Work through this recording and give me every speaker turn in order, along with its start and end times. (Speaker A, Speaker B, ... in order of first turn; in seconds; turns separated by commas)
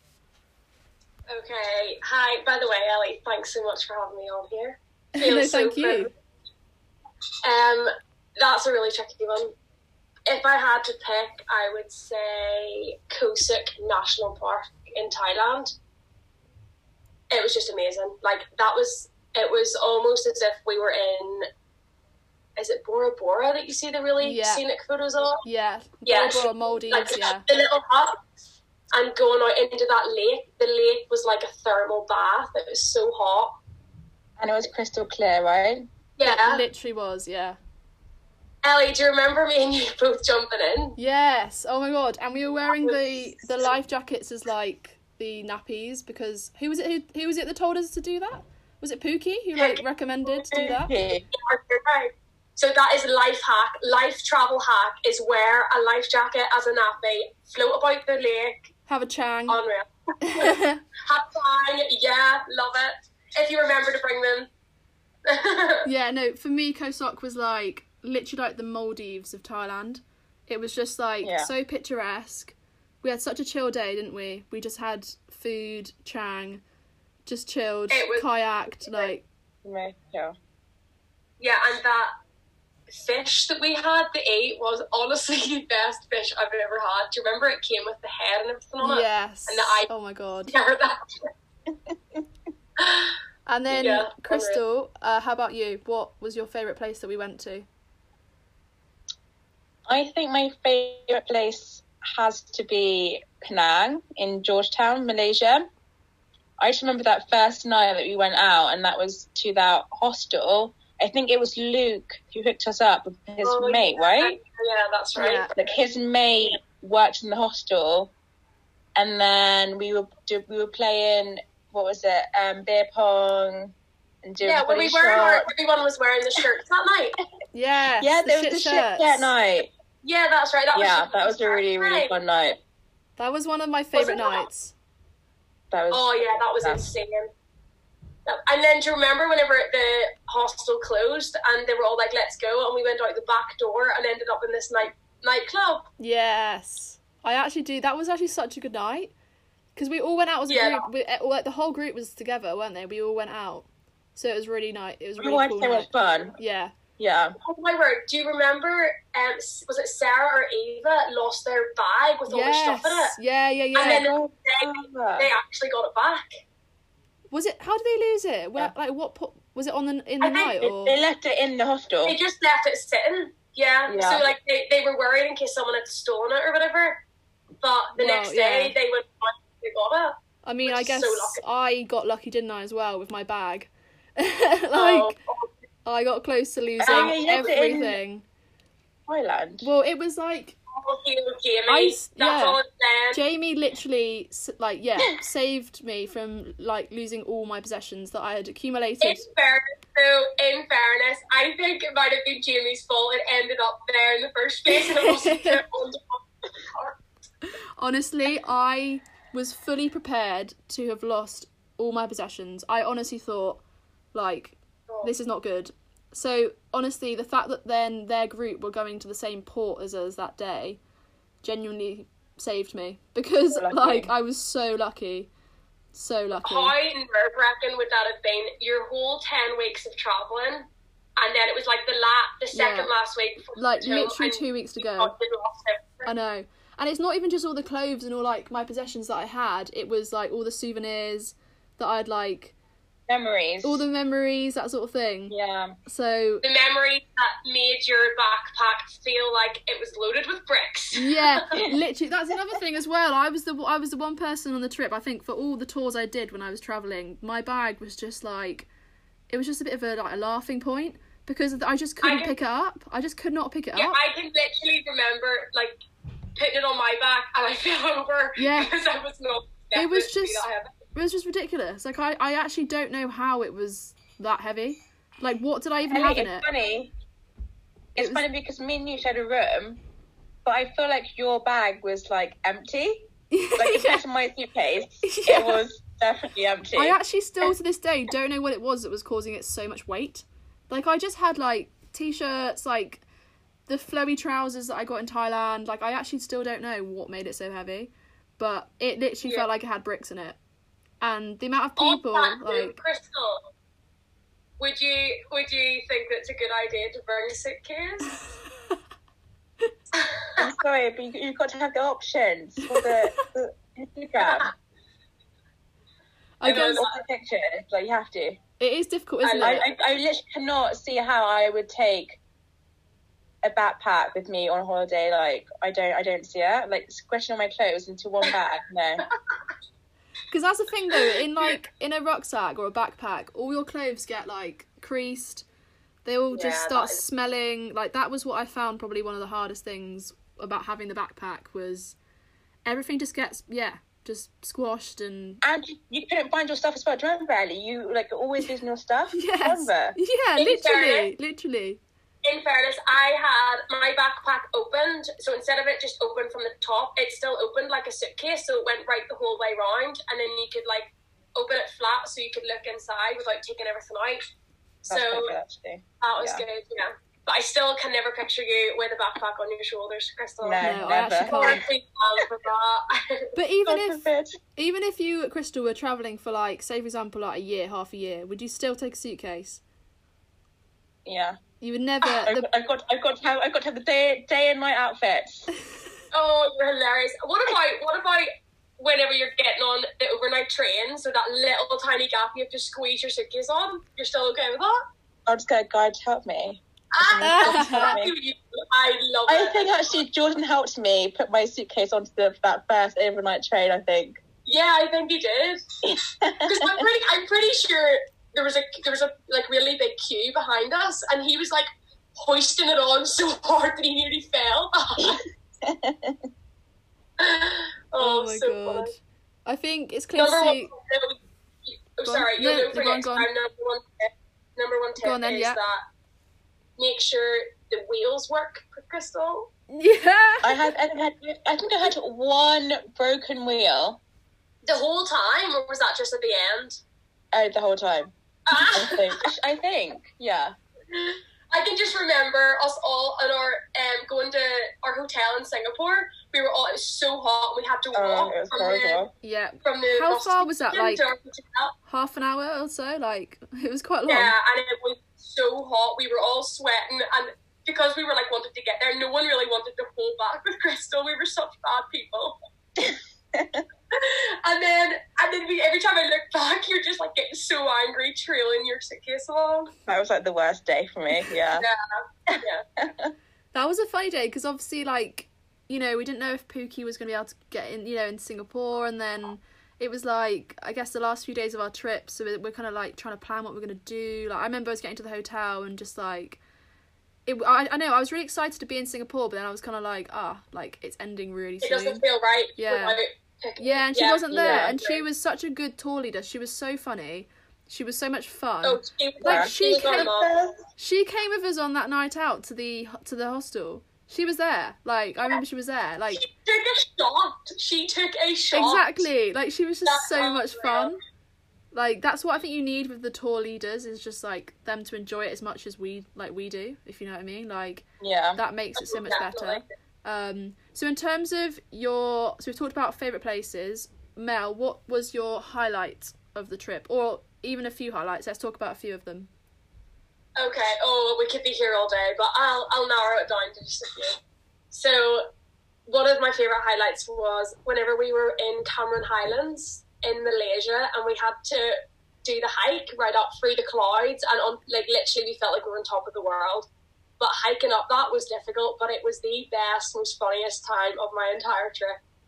Speaker A: 1.3-6.1, Speaker B: 5.2-6.1, Speaker A: 7.4-9.5, Speaker A: 10.3-15.7, Speaker A: 17.3-21.5, Speaker A: 22.6-25.4, Speaker B: 24.2-24.6, Speaker B: 25.4-27.5, Speaker A: 26.1-28.3, Speaker A: 28.9-33.6, Speaker C: 34.4-35.9, Speaker A: 36.2-36.6, Speaker B: 36.2-37.6, Speaker A: 38.6-41.0, Speaker B: 41.0-50.9, Speaker A: 42.7-43.7, Speaker A: 49.6-49.8, Speaker C: 50.5-51.3, Speaker A: 51.3-58.7, Speaker B: 58.9-59.6, Speaker A: 59.5-64.5, Speaker B: 60.2-60.8, Speaker A: 65.3-65.9, Speaker B: 65.8-76.6, Speaker C: 71.2-71.5, Speaker B: 77.3-79.2, Speaker A: 77.9-79.1, Speaker C: 79.6-80.3, Speaker A: 81.4-82.1, Speaker A: 82.9-89.9, Speaker B: 88.8-90.5, Speaker A: 90.5-91.3, Speaker C: 91.7-92.2, Speaker A: 92.8-93.2, Speaker B: 93.5-97.7, Speaker A: 93.7-94.6, Speaker C: 99.9-105.7, Speaker C: 106.6-114.3, Speaker A: 113.4-115.5, Speaker B: 115.2-115.5, Speaker C: 115.6-118.1, Speaker C: 119.0-125.5, Speaker A: 124.4-127.2, Speaker B: 127.5-129.3, Speaker C: 128.0-129.7, Speaker A: 130.0-132.1, Speaker C: 130.7-132.6, Speaker B: 133.2-134.7, Speaker A: 133.9-134.5, Speaker C: 135.7-136.8, Speaker A: 135.9-137.3, Speaker A: 138.3-145.9, Speaker B: 146.0-149.1, Speaker B: 149.8-156.7, Speaker A: 150.5-150.9, Speaker C: 155.2-156.4, Speaker C: 157.0-157.3, Speaker A: 157.4-163.2, Speaker B: 162.3-164.1, Speaker A: 163.8-166.3, Speaker C: 163.8-165.3, Speaker B: 167.3-171.0, Speaker A: 170.2-170.5, Speaker C: 170.6-172.2, Speaker A: 172.1-177.0, Speaker C: 173.9-174.3, Speaker A: 177.6-181.4, Speaker B: 178.0-178.8, Speaker B: 180.4-185.2, Speaker A: 184.7-185.5, Speaker B: 185.8-188.2, Speaker C: 186.8-188.0, Speaker A: 186.8-187.2, Speaker C: 189.1-189.7, Speaker B: 189.6-190.6, Speaker A: 190.7-193.2, Speaker B: 191.7-192.6, Speaker B: 193.1-199.2, Speaker A: 199.0-207.0, Speaker B: 204.7-205.6, Speaker B: 207.8-213.6, Speaker B: 214.1-220.8, Speaker B: 221.4-225.3, Speaker C: 223.5-224.1, Speaker B: 225.9-226.8, Speaker A: 226.4-236.1, Speaker B: 232.5-232.9, Speaker B: 233.6-235.1, Speaker B: 236.1-242.5, Speaker C: 243.1-243.8, Speaker B: 243.6-245.3, Speaker C: 245.3-245.8, Speaker B: 245.9-246.4, Speaker A: 246.4-251.3, Speaker B: 250.9-258.7, Speaker B: 259.3-264.0, Speaker A: 262.0-262.4, Speaker A: 263.8-265.8, Speaker A: 266.4-270.7, Speaker B: 268.4-268.7, Speaker B: 269.8-276.5, Speaker C: 275.9-276.9, Speaker C: 277.9-279.8, Speaker B: 278.0-278.2, Speaker C: 280.4-287.0, Speaker B: 283.3-284.0, Speaker B: 285.0-285.6, Speaker B: 286.8-293.0, Speaker B: 293.7-300.4, Speaker B: 301.0-302.8, Speaker A: 301.8-303.4, Speaker A: 304.6-308.3, Speaker A: 310.0-310.4, Speaker C: 310.4-314.5, Speaker B: 312.7-313.2, Speaker A: 314.2-314.5, Speaker B: 316.4-316.9, Speaker A: 316.4-317.0, Speaker C: 316.4-318.4, Speaker B: 318.6-319.6, Speaker A: 319.2-319.7, Speaker C: 319.4-322.2, Speaker C: 323.4-329.1, Speaker B: 330.3-335.4, Speaker B: 336.1-342.0, Speaker A: 336.3-337.0, Speaker B: 342.6-345.4, Speaker C: 345.4-350.0, Speaker B: 349.1-351.8, Speaker A: 350.4-351.1, Speaker A: 352.2-364.2, Speaker A: 364.9-365.4, Speaker C: 364.9-366.4, Speaker A: 366.0-373.2, Speaker C: 370.4-371.6, Speaker B: 370.6-371.6, Speaker B: 373.4-374.1, Speaker C: 373.7-374.4, Speaker B: 374.6-379.6, Speaker C: 381.1-381.4, Speaker B: 381.6-382.5, Speaker C: 382.2-385.5, Speaker A: 386.1-394.8, Speaker C: 395.3-398.1, Speaker A: 396.9-400.0, Speaker B: 397.2-397.9, Speaker C: 399.3-404.2, Speaker A: 404.4-405.6, Speaker C: 405.9-406.8, Speaker A: 406.4-415.2, Speaker C: 415.0-416.3, Speaker A: 417.2-418.9, Speaker B: 418.0-420.7, Speaker A: 420.2-425.8, Speaker B: 422.1-423.3, Speaker B: 425.0-425.6, Speaker A: 426.8-429.5, Speaker B: 429.7-430.5, Speaker C: 430.4-434.0, Speaker A: 434.6-436.8, Speaker C: 437.3-440.6, Speaker A: 438.5-439.1, Speaker A: 440.9-449.0, Speaker C: 447.9-449.1, Speaker B: 449.2-451.1, Speaker A: 449.6-451.8, Speaker B: 451.9-454.3, Speaker A: 454.1-462.4, Speaker C: 462.8-463.6, Speaker A: 463.9-469.7, Speaker C: 469.9-471.7, Speaker A: 471.6-472.6, Speaker C: 472.3-473.1, Speaker B: 473.5-486.4, Speaker B: 487.3-492.0, Speaker A: 491.6-495.0, Speaker B: 492.6-493.0, Speaker B: 493.6-500.1, Speaker C: 494.3-494.7, Speaker A: 498.6-500.3, Speaker C: 499.2-500.6, Speaker B: 500.8-506.2, Speaker A: 506.1-509.1, Speaker B: 508.5-511.0, Speaker A: 509.9-510.9, Speaker B: 511.7-529.3, Speaker C: 518.0-518.4, Speaker A: 518.8-519.7, Speaker A: 530.4-534.2, Speaker A: 534.7-535.3, Speaker A: 535.9-546.7, Speaker A: 547.2-552.0